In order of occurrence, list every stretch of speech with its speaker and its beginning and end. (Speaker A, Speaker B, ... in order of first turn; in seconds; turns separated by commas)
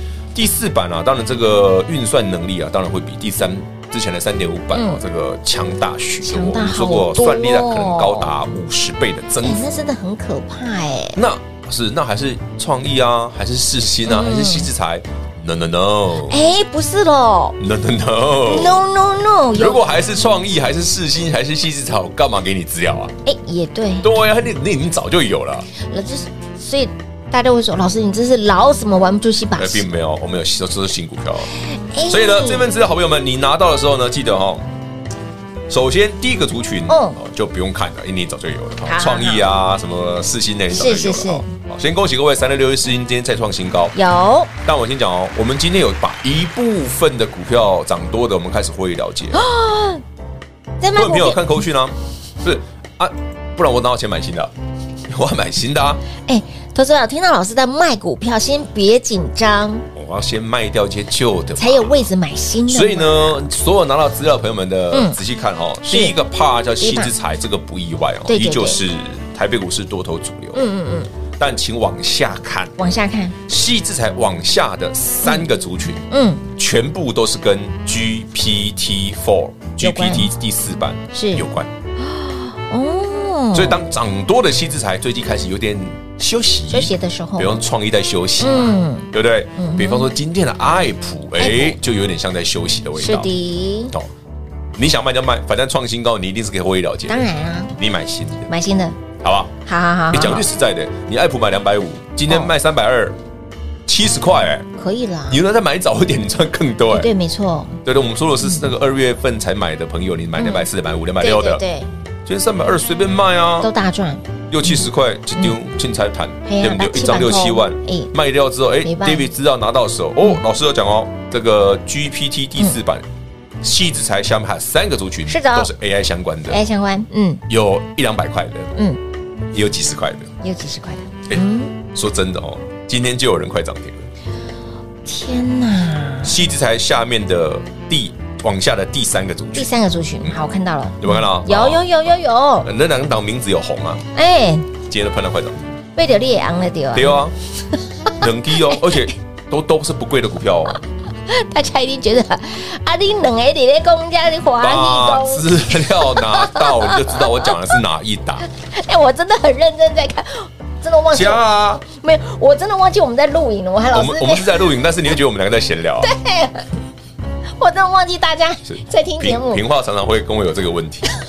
Speaker A: 0.3-9.7, Speaker B: 4.7-5.0, Speaker B: 6.2-8.3, Speaker B: 9.4-11.2, Speaker A: 11.2-16.4, Speaker B: 14.1-14.7, Speaker B: 16.3-17.6, Speaker A: 17.6-18.8, Speaker B: 18.4-19.8, Speaker A: 19.5-23.1, Speaker B: 23.2-24.1, Speaker A: 24.0-25.7, Speaker B: 25.8-29.9, Speaker A: 29.6-31.5, Speaker B: 31.7-32.7, Speaker A: 32.1-34.7, Speaker A: 35.7-44.0, Speaker B: 36.9-37.2, Speaker B: 38.8-39.4, Speaker B: 40.7-41.5, Speaker B: 44.0-44.5, Speaker A: 44.6-49.5, Speaker B: 49.3-50.0, Speaker B: 50.8-51.5, Speaker A: 51.0-54.5, Speaker A: 55.1-56.0, Speaker B: 56.3-59.9, Speaker A: 59.9-62.1, Speaker B: 61.6-63.4, Speaker A: 62.7-70.7, Speaker B: 64.9-65.2, Speaker B: 65.8-66.2, Speaker B: 66.8-67.1, Speaker B: 68.3-68.8, Speaker B: 70.5-71.1, Speaker A: 71.4-72.7, Speaker B: 72.8-73.4, Speaker A: 73.5-76.0, Speaker B: 76.1-76.4, Speaker A: 76.6-81.7, Speaker B: 79.8-80.3, Speaker B: 81.1-81.5, Speaker B: 82.0-83.8, Speaker A: 83.5-93.3, Speaker B: 86.7-87.6, Speaker B: 88.4-90.1, Speaker B: 91.4-91.8, Speaker B: 93.0-93.9, Speaker A: 94.8-98.5, Speaker B: 97.1-97.7, Speaker B: 98.5-99.0, Speaker A: 99.2-99.5, Speaker B: 99.7-100.5, Speaker A: 100.1-103.2, Speaker A: 103.9-104.7, Speaker B: 104.8-105.4, Speaker A: 105.3-107.1, Speaker B: 106.9-107.8, Speaker A: 107.8-111.6, Speaker B: 110.4-110.7, Speaker B: 111.2-111.9, Speaker A: 112.3-113.7, Speaker B: 113.6-114.8, Speaker A: 114.5-123.1, Speaker B: 116.5-118.1, Speaker B: 118.8-119.3, Speaker A: 123.6-126.6, Speaker B: 125.3-125.7, Speaker B: 126.5-127.4, Speaker A: 127.5-128.7, Speaker A: 129.5-130.3, Speaker B: 130.4-131.7, Speaker A: 131.3-134.1, Speaker B: 135.1-136.4, Speaker A: 136.2-139.7, Speaker B: 139.6-142.7, Speaker A: 141.0-141.9, Speaker A: 142.6-144.1, Speaker B: 144.2-144.7, Speaker A: 144.9-145.6, Speaker B: 146.0-147.3, Speaker A: 146.9-147.3, Speaker A: 148.2-150.8, Speaker B: 151.3-157.5, Speaker A: 154.6-158.5, Speaker B: 158.6-164.6, Speaker A: 161.1-161.8, Speaker A: 163.9-166.1, Speaker B: 166.0-166.7, Speaker B: 167.6-169.6, Speaker A: 168.7-171.1